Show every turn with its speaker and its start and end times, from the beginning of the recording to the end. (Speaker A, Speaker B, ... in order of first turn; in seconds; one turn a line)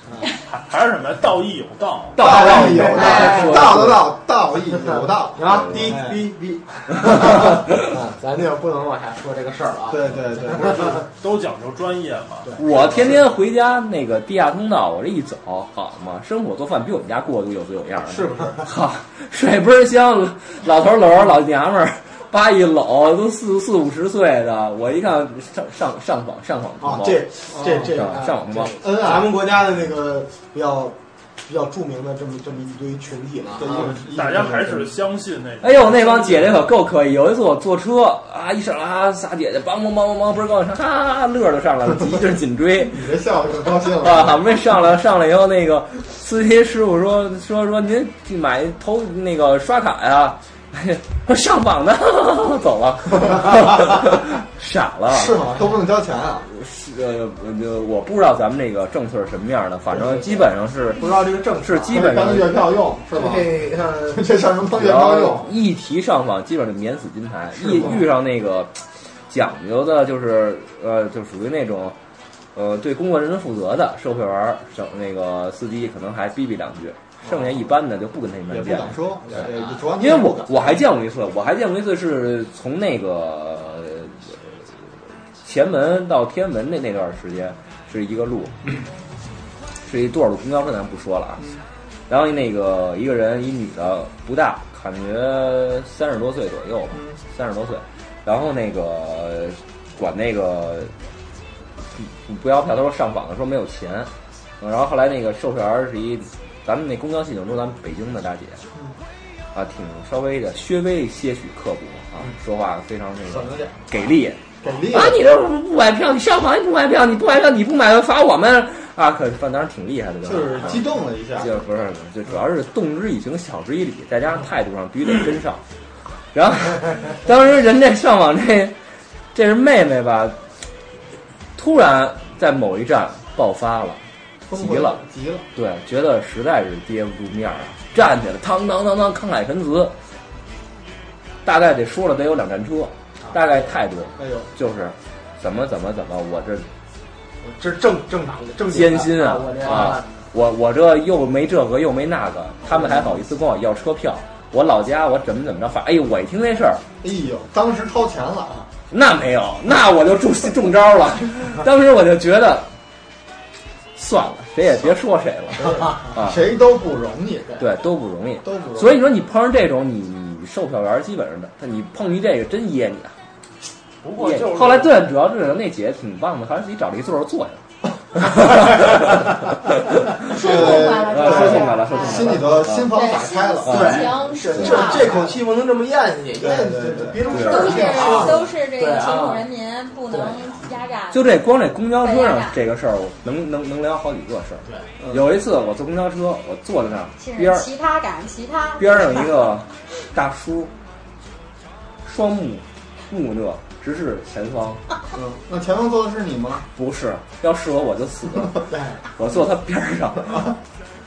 Speaker A: 0.5-2.2
Speaker B: 2.1-4.1
Speaker C: 2.2-6.2
Speaker D: 2.3-3.7
Speaker D: 5.3-11.0
Speaker B: 5.5-6.0
Speaker C: 9.9-11.0
Speaker A: 11.2-12.6
Speaker D: 12.4-12.9
Speaker B: 12.6-27.2
Speaker C: 18.0-18.6
Speaker D: 26.8-34.0
Speaker C: 27.5-28.0
Speaker B: 27.9-28.8
Speaker C: 28.8-29.4
Speaker C: 33.6-34.9
Speaker A: 34.0-36.3
Speaker B: 35.6-43.1
Speaker C: 42.9-44.4
Speaker B: 44.0-55.4
Speaker C: 55.1-56.5
Speaker D: 55.3-55.7
Speaker B: 56.5-61.1
Speaker D: 61.0-62.0
Speaker B: 61.6-62.6
Speaker C: 61.9-63.5
Speaker D: 63.1-64.2
Speaker C: 64.1-65.5
Speaker B: 64.7-68.8
Speaker C: 67.6-68.0
Speaker B: 69.3-72.0
Speaker B: 72.5-79.0
Speaker C: 78.5-80.8
Speaker B: 80.0-84.4
Speaker B: 85.4-88.6
Speaker B: 89.8-91.5
Speaker B: 92.1-100.9
Speaker B: 102.0-104.1
Speaker B: 104.6-108.6
Speaker B: 109.5-125.6
Speaker C: 113.3-114.1
Speaker C: 114.6-115.2
Speaker C: 120.2-121.5
Speaker B: 126.3-128.8
Speaker B: 129.3-130.4
Speaker B: 131.6-135.0
Speaker C: 134.5-135.5
Speaker B: 135.6-139.9
Speaker B: 141.4-146.7
Speaker C: 144.2-144.5
Speaker D: 147.4-150.1
Speaker B: 148.7-156.8
Speaker C: 157.0-158.7
Speaker B: 158.9-162.7
Speaker B: 164.0-166.5
Speaker C: 165.6-167.6
Speaker B: 167.6-173.1
Speaker C: 168.4-169.0
Speaker A: 174.0-175.0
Speaker B: 174.2-177.6
Speaker E: 180.2-185.3
Speaker C: 180.3-184.1
Speaker B: 180.4-182.9
Speaker D: 183.7-189.5
Speaker B: 183.7-184.1
Speaker B: 184.6-184.9
Speaker C: 184.9-185.4
Speaker C: 186.4-188.3
Speaker E: 187.2-191.4
Speaker B: 187.3-187.8
Speaker D: 190.1-190.6
Speaker B: 191.1-197.7
Speaker E: 192.0-192.6
Speaker E: 197.2-199.3
Speaker B: 198.8-200.7
Speaker B: 202.0-204.8
Speaker C: 205.1-206.7
Speaker B: 206.8-210.5